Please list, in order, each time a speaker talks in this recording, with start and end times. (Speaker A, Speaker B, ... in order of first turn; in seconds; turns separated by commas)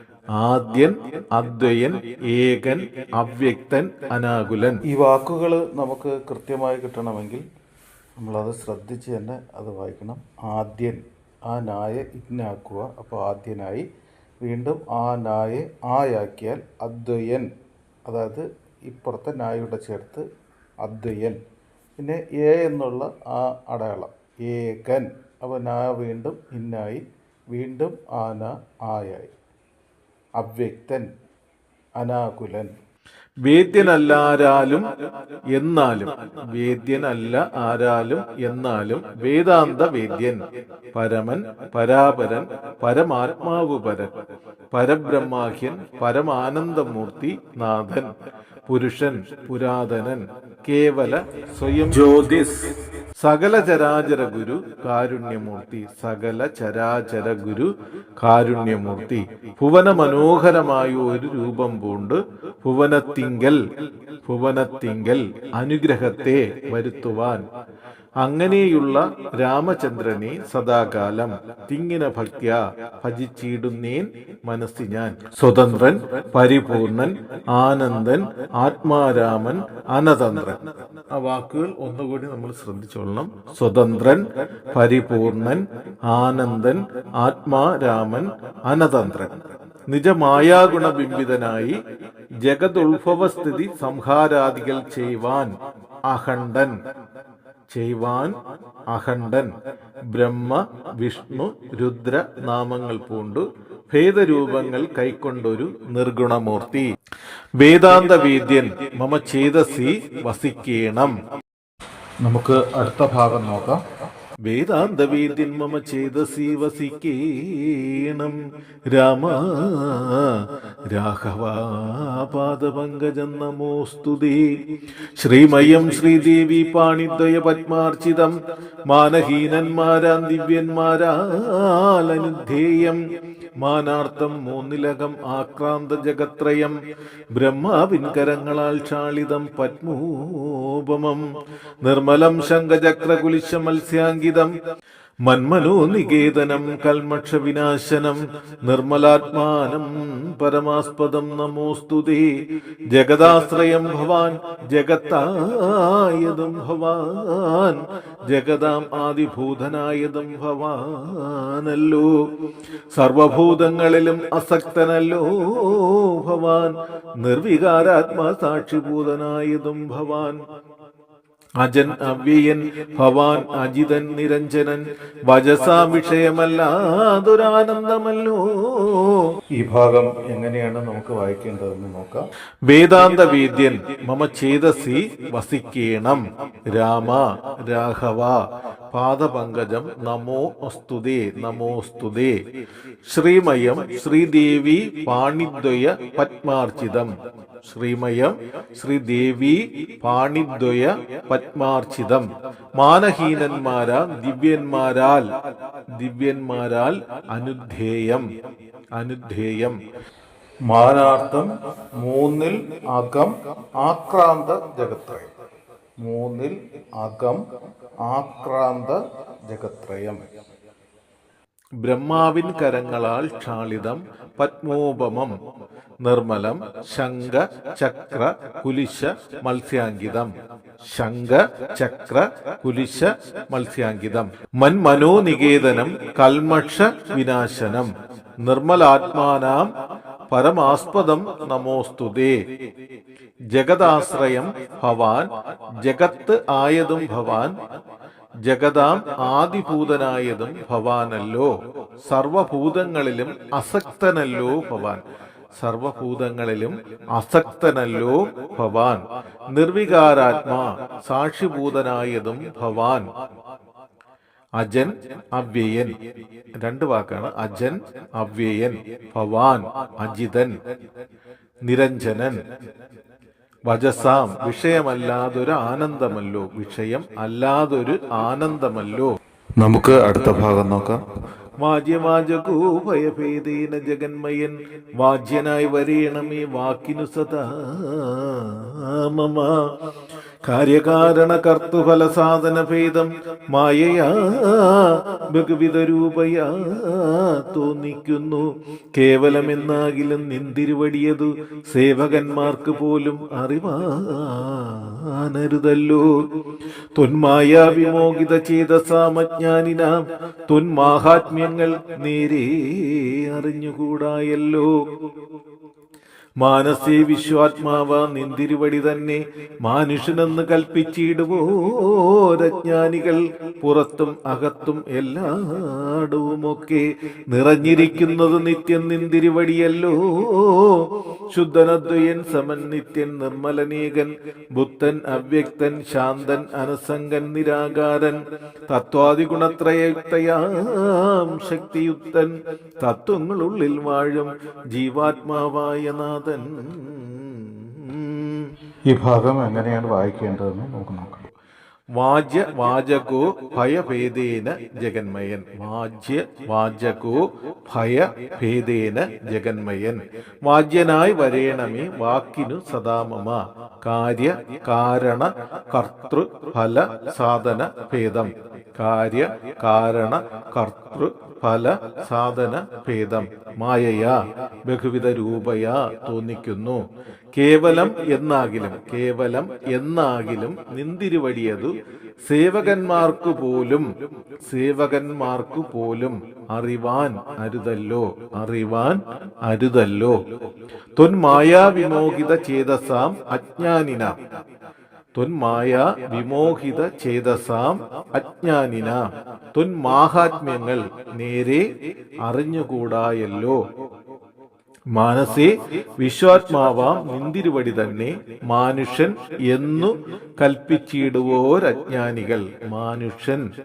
Speaker A: 0.3-4.8, Speaker B: 4.9-7.4, Speaker B: 8.2-13.8, Speaker B: 14.4-17.5, Speaker B: 18.1-20.2, Speaker B: 20.8-21.4, Speaker B: 22.0-29.3, Speaker B: 30.4-31.1, Speaker B: 31.9-32.7, Speaker A: 33.4-34.9, Speaker A: 35.5-40.4, Speaker A: 40.9-44.1, Speaker A: 44.7-48.1, Speaker A: 48.7-52.0, Speaker B: 51.9-52.7, Speaker A: 53.2-63.6, Speaker A: 64.2-67.4, Speaker A: 68.2-80.6, Speaker A: 81.1-89.3, Speaker A: 89.9-91.8, Speaker A: 92.4-95.5, Speaker A: 96.1-96.7, Speaker A: 97.7-98.3, Speaker A: 98.9-99.5, Speaker A: 100.1-106.9, Speaker A: 107.6-111.1, Speaker B: 112.2-113.8, Speaker A: 114.5-118.4, Speaker A: 118.9-120.4, Speaker A: 120.9-124.5, Speaker A: 125.2-128.4, Speaker A: 128.9-133.0, Speaker A: 133.6-136.7, Speaker A: 137.3-141.2, Speaker A: 141.8-144.5, Speaker A: 145.2-152.3, Speaker A: 152.9-162.1, Speaker A: 162.9-170.4, Speaker A: 171.6-179.2, Speaker B: 179.6-182.2, Speaker A: 182.7-188.4, Speaker A: 188.9-192.3, Speaker A: 193.1-197.1, Speaker A: 197.6-205.3, Speaker A: 205.9-208.2, Speaker A: 208.9-209.8, Speaker B: 210.7-215.3, Speaker B: 216.0-217.4, Speaker B: 218.0-220.3, Speaker A: 221.8-225.3, Speaker A: 226.0-230.3, Speaker A: 230.8-237.9, Speaker A: 238.4-239.7, Speaker A: 240.3-242.4, Speaker A: 243.5-245.3, Speaker A: 245.8-247.5, Speaker A: 248.4-251.5, Speaker A: 252.1-255.0, Speaker A: 255.6-263.1, Speaker A: 264.6-265.9, Speaker A: 266.6-270.6, Speaker A: 271.6-272.4, Speaker A: 273.7-279.1, Speaker B: 279.6-281.0, Speaker A: 281.6-289.7, Speaker A: 290.5-306.2, Speaker A: 306.9-314.7, Speaker A: 316.4-348.5, Speaker B: 348.9-351.2, Speaker A: 351.9-376.8, Speaker A: 377.3-381.7, Speaker A: 382.3-383.9, Speaker A: 384.5-390.2, Speaker A: 391.0-394.1, Speaker A: 395.2-401.7, Speaker A: 402.2-403.6, Speaker A: 404.9-413.4